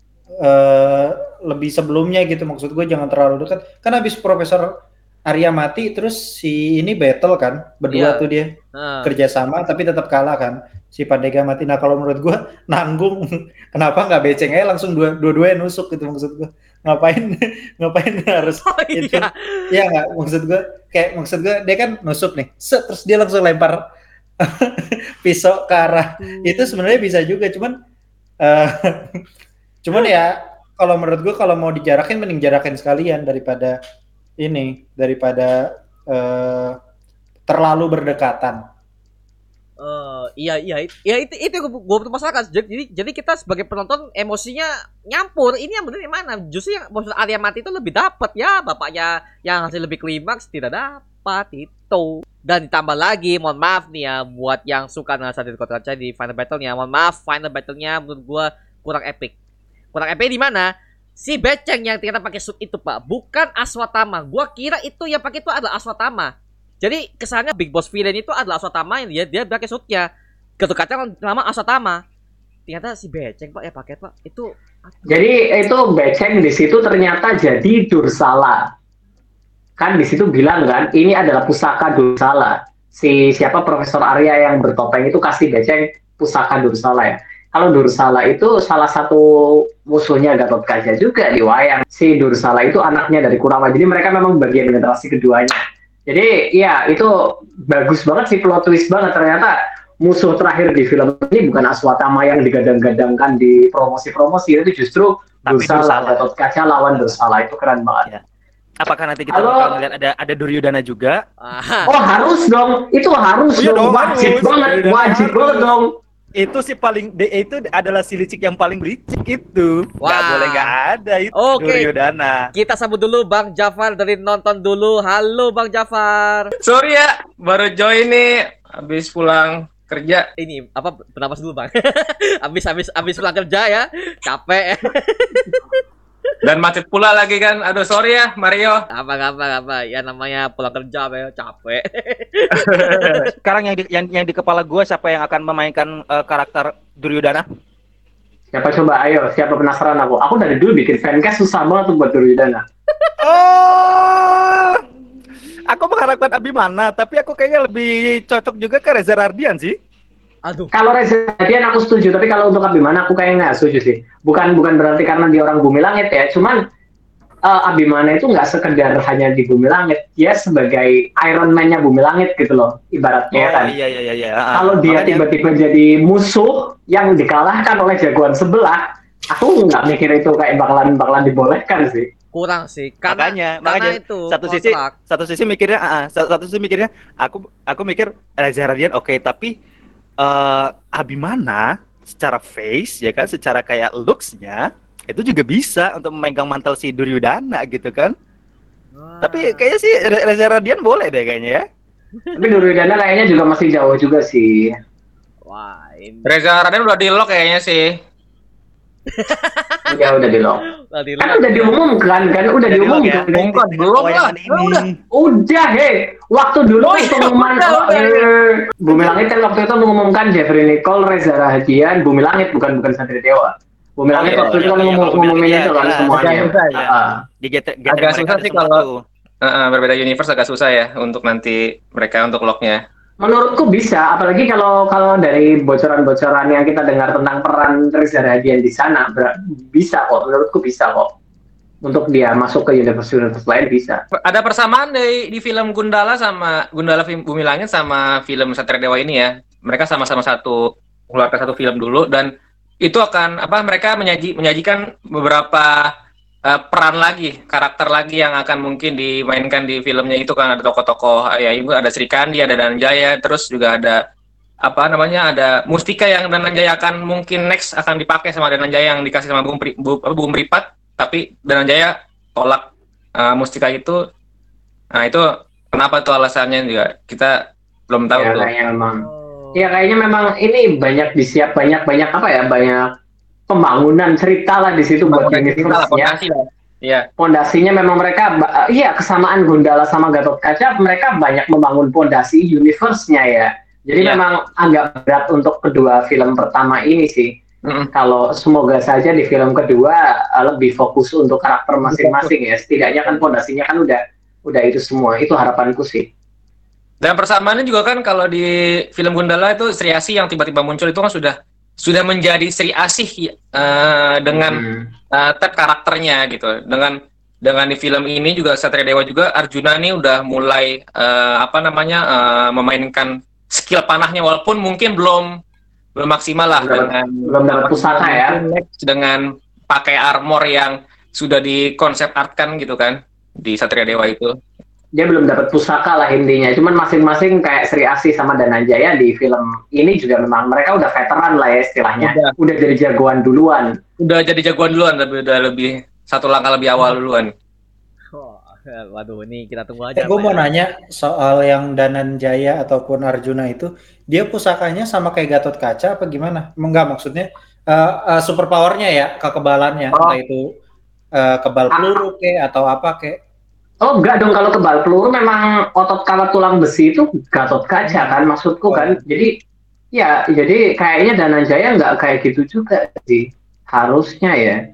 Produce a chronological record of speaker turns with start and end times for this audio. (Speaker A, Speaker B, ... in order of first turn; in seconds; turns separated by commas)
Speaker A: 0.4-4.7, Speaker A: 5.3-13.2, Speaker B: 7.9-9.1, Speaker A: 13.7-23.8, Speaker B: 18.4-19.7, Speaker A: 24.4-27.7, Speaker B: 26.2-27.0, Speaker A: 28.4-29.2, Speaker A: 29.8-33.8, Speaker A: 34.4-36.8, Speaker A: 37.5-38.6, Speaker B: 39.8-59.3, Speaker B: 59.9-70.1, Speaker B: 70.6-72.0, Speaker B: 72.7-75.1, Speaker C: 75.1-78.6, Speaker C: 79.8-89.2, Speaker C: 89.9-97.1, Speaker C: 97.7-108.1, Speaker D: 105.5-106.2, Speaker D: 108.8-111.2, Speaker C: 109.3-109.7, Speaker B: 111.4-111.9, Speaker C: 111.8-115.9, Speaker D: 113.5-115.7, Speaker D: 116.4-122.4, Speaker B: 120.0-120.7, Speaker B: 121.3-121.9, Speaker B: 122.5-126.5, Speaker E: 126.6-128.3, Speaker E: 128.8-130.2, Speaker B: 130.4-135.8, Speaker E: 136.4-138.8, Speaker B: 138.9-143.3, Speaker E: 142.5-143.3, Speaker D: 143.4-147.4, Speaker C: 148.5-152.6, Speaker D: 153.2-154.8, Speaker D: 155.7-159.8, Speaker B: 160.4-160.7, Speaker C: 160.7-166.6, Speaker C: 167.4-173.7, Speaker D: 173.3-175.2, Speaker C: 174.5-182.1, Speaker B: 182.3-184.9, Speaker D: 183.1-189.5, Speaker D: 190.2-198.1, Speaker B: 198.9-199.7, Speaker D: 199.2-201.6, Speaker C: 202.3-204.7, Speaker B: 205.5-206.3, Speaker E: 206.2-207.9, Speaker B: 209.1-209.9, Speaker C: 209.9-210.6, Speaker B: 210.9-211.8, Speaker C: 211.2-213.6, Speaker D: 212.7-215.0, Speaker E: 213.3-214.8, Speaker C: 215.1-227.2, Speaker E: 216.8-218.3, Speaker E: 224.2-224.8, Speaker D: 224.2-229.0, Speaker E: 226.1-226.9, Speaker E: 227.9-228.8, Speaker E: 229.4-232.8, Speaker C: 233.2-241.1, Speaker C: 241.8-244.0, Speaker E: 244.2-252.3, Speaker E: 252.8-255.9, Speaker E: 256.5-264.0, Speaker E: 264.6-272.6, Speaker E: 273.2-274.0, Speaker E: 274.9-277.3, Speaker E: 277.9-278.5, Speaker C: 278.1-282.8, Speaker B: 279.0-279.8, Speaker C: 283.5-286.1, Speaker E: 285.1-287.1, Speaker C: 287.2-297.3, Speaker E: 297.6-297.9, Speaker C: 297.9-306.1, Speaker E: 301.9-302.3, Speaker E: 307.0-314.6, Speaker C: 314.3-314.9, Speaker E: 315.1-325.3, Speaker E: 326.0-334.3, Speaker C: 326.5-328.4, Speaker C: 335.0-343.7, Speaker E: 342.0-342.3, Speaker E: 344.0-347.3, Speaker B: 348.1-350.5, Speaker A: 349.9-360.4, Speaker E: 359.9-360.2, Speaker A: 361.2-363.2, Speaker C: 363.8-369.3, Speaker A: 367.9-368.1, Speaker A: 368.7-368.9, Speaker C: 369.9-374.6